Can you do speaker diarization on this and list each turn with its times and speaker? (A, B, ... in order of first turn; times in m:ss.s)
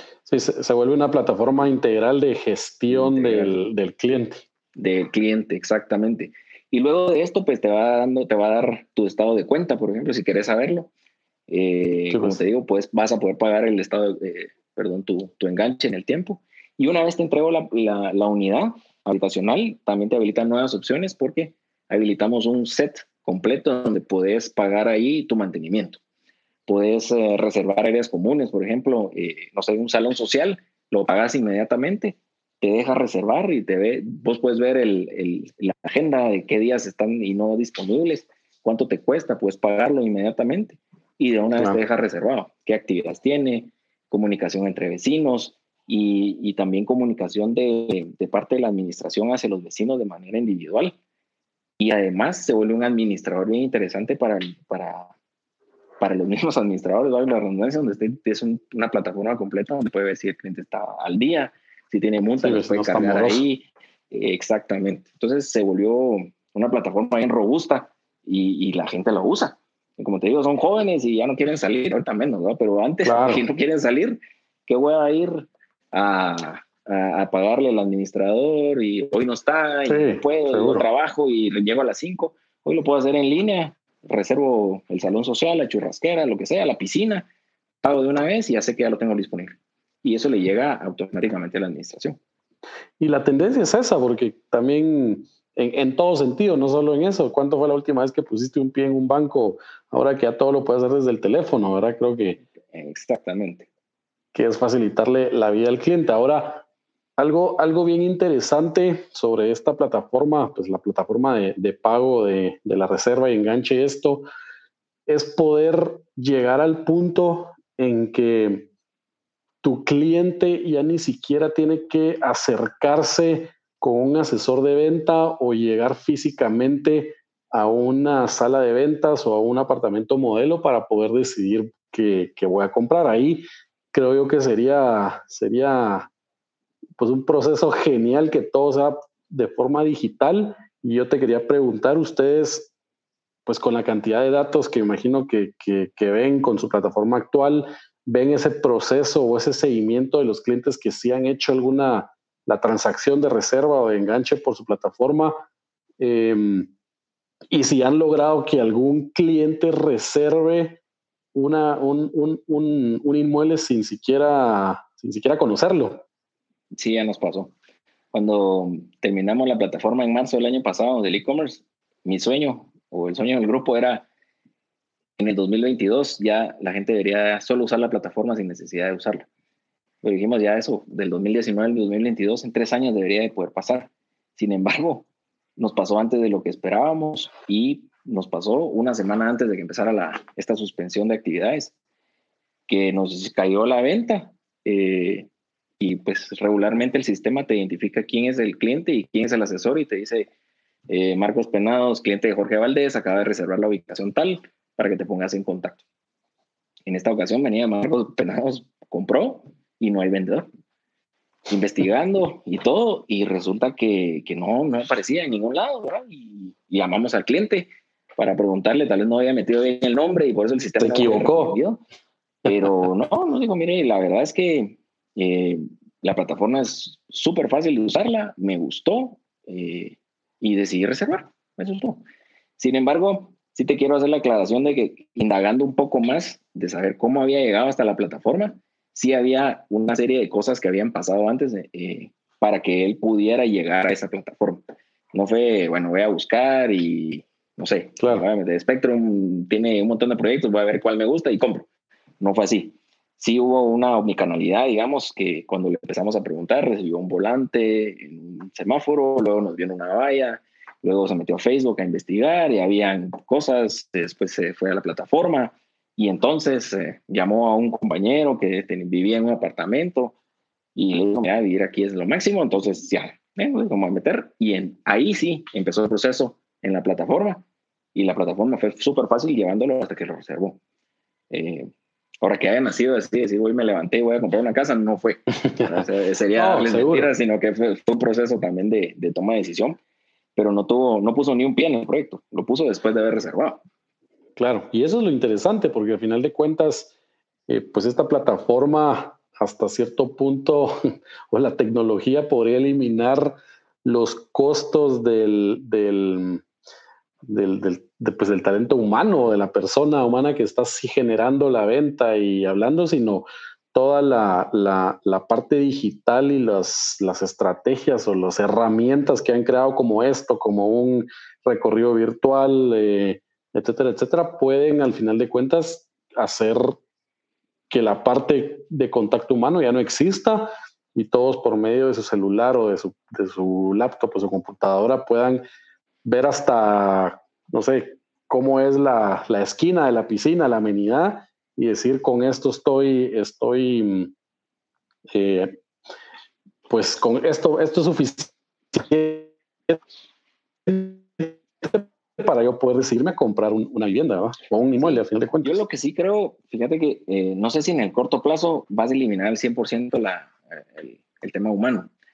0:00.3-0:04.4 A
0:02.9-0:03.6 B
0:04.8-0:10.9 B
0:11.5-0:26.0 B
0:12.1-0:12.4 A
0:26.7-0:51.0 B
0:51.8-0:55.1 B
0:56.0-1:27.3 B
1:02.4-1:03.4 A
1:13.0-1:13.4 A
1:19.9-1:20.8 A
1:27.8-1:32.2 B
1:33.0-1:42.4 A
1:42.7-1:43.7 B
1:44.3-1:46.6 A
1:47.2-1:54.2 A
1:55.1-1:58.7 A
1:59.6-2:16.1 A
2:17.0-2:22.7 A
2:23.4-2:35.3 A
2:36.0-2:36.7 A
2:37.5-2:40.8 A
2:41.3-2:46.0 A
2:46.8-2:47.5 B
2:48.1-2:54.1 B
2:55.2-2:59.3 B
3:00.0-3:11.7 B
3:12.7-3:15.3 B
3:15.8-3:20.3 B
3:20.9-3:25.8 B
3:26.8-3:30.5 B
3:31.5-3:41.8 B
3:40.8-3:41.6 A
3:42.4-3:52.0 B
3:52.6-4:11.7 B
4:08.0-4:08.2 A
4:12.2-4:30.1 B
4:30.8-4:40.6 B
4:41.3-4:41.7 B
4:42.2-4:49.8 B
4:45.4-4:45.8 A
4:46.3-4:47.1 A
4:50.4-4:53.6 B
4:54.4-4:56.9 A
4:57.5-5:06.4 A
5:07.2-5:26.8 A
5:27.7-5:35.4 A
5:36.0-5:44.1 A
5:45.1-5:45.5 A
5:46.7-5:49.8 A
5:50.6-5:55.6 A
5:54.8-6:01.9 B